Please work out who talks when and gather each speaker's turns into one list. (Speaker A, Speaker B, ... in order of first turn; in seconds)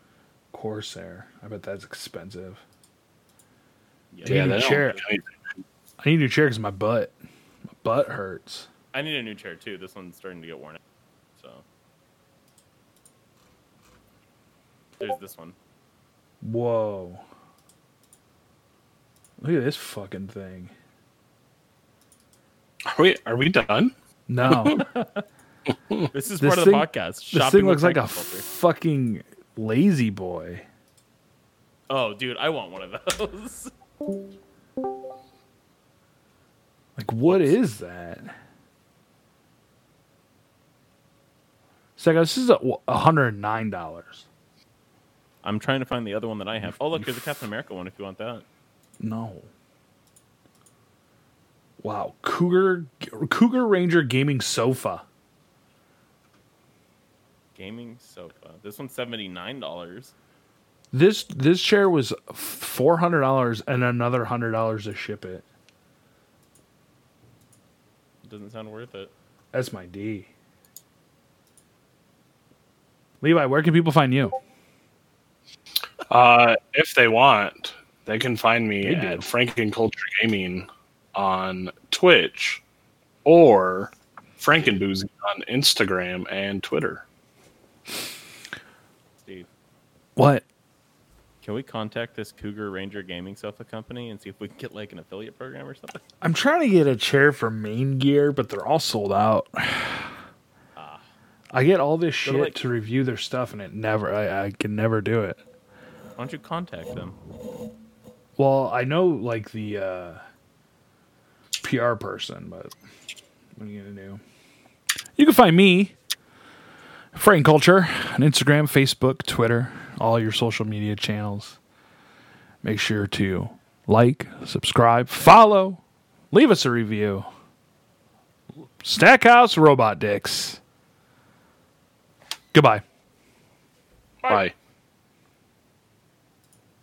Speaker A: 0.5-2.6, 4.2-5.0, 6.0-7.1, 7.8-8.7, 16.4-17.2, 19.4-20.7, 24.3-24.8, 26.4-30.6, 37.0-38.3, 42.0-44.2, 46.6-47.0, 49.0-49.5, 51.8-55.0, 60.9-65.4, 69.5-70.3, 73.2-74.3, 78.8-79.2, 90.2-90.4, 96.2-100.1, 101.5-105.4, 108.4-110.2, 111.6-112.7, 113.6-114.2, 115.2-115.9, 117.1-121.6, 122.6-125.8, 126.3-127.3, 128.8-130.6, 132.5-132.8
Speaker B: 4.1-4.9, 8.9-10.8, 11.4-11.6, 15.0-15.6, 24.6-25.2, 26.1-28.4, 31.9-33.7, 37.3-37.5, 45.4-48.4, 57.5-60.1, 68.2-69.1, 91.4-96.0, 100.8-101.1, 102.2-102.6, 106.2-107.2
Speaker C: 4.2-5.3, 22.9-23.9, 24.5-24.8, 76.1-82.6, 83.2-87.0, 134.2-134.5